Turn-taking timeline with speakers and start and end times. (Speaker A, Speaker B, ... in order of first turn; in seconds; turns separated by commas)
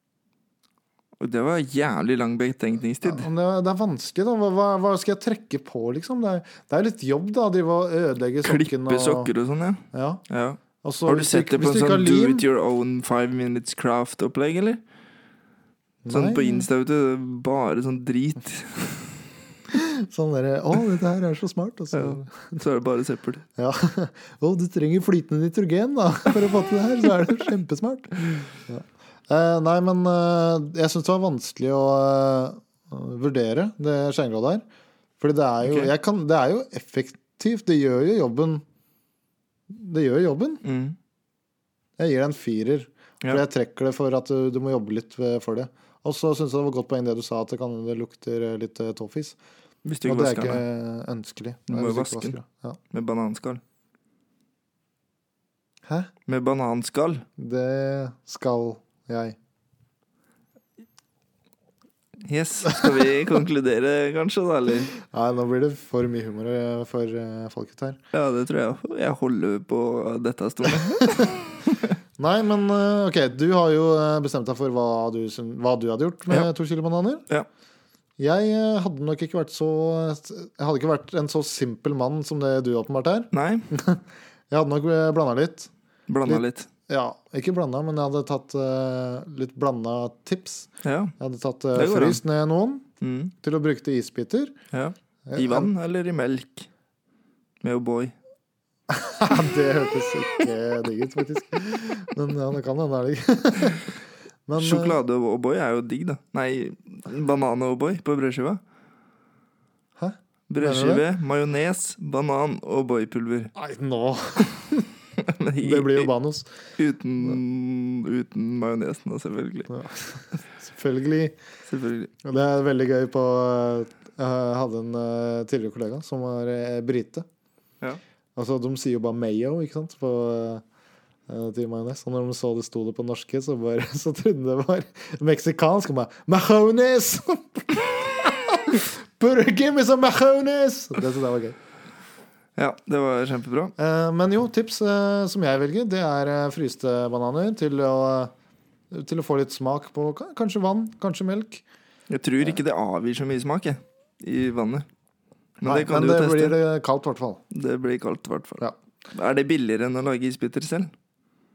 Speaker A: 1.2-3.3, Speaker B: 3.0-9.3, Speaker A: 8.4-14.8, Speaker B: 9.9-10.2, Speaker B: 10.8-12.4, Speaker B: 16.0-16.7, Speaker A: 16.1-19.2, Speaker B: 19.7-22.6, Speaker A: 21.9-23.4, Speaker B: 23.6-34.6, Speaker B: 35.2-38.6, Speaker A: 35.6-35.9, Speaker B: 39.7-40.6, Speaker A: 40.6-41.0, Speaker B: 42.0-49.4, Speaker A: 49.8-50.6, Speaker B: 50.0-52.8, Speaker A: 51.7-52.4, Speaker A: 52.9-53.6, Speaker B: 55.8-56.1, Speaker A: 56.2-57.2, Speaker B: 57.4-59.4, Speaker A: 62.2-64.9, Speaker B: 65.0-68.0, Speaker A: 68.1-72.0, Speaker B: 71.0-71.3, Speaker B: 72.2-77.2, Speaker B: 78.2-85.7, Speaker A: 83.3-83.7, Speaker A: 86.1-86.7, Speaker B: 86.2-90.7, Speaker A: 90.8-91.1, Speaker B: 91.2-92.8, Speaker A: 91.7-92.2, Speaker A: 93.0-93.3, Speaker B: 93.4-94.5, Speaker A: 94.7-96.7, Speaker B: 95.2-95.7, Speaker A: 97.6-98.1, Speaker B: 98.9-104.0, Speaker B: 104.5-105.0, Speaker A: 104.6-108.6, Speaker B: 110.0-111.0, Speaker A: 110.5-113.5, Speaker B: 113.5-114.9, Speaker A: 115.2-116.1, Speaker B: 115.6-116.5, Speaker A: 116.8-119.7, Speaker B: 119.7-121.3, Speaker A: 121.7-122.1, Speaker B: 122.2-127.2, Speaker B: 128.3-130.6, Speaker B: 131.3-141.6, Speaker A: 142.6-143.7, Speaker B: 143.8-148.3, Speaker B: 148.9-151.6, Speaker A: 152.1-154.9, Speaker A: 155.6-156.6, Speaker B: 155.6-157.4, Speaker A: 157.5-160.9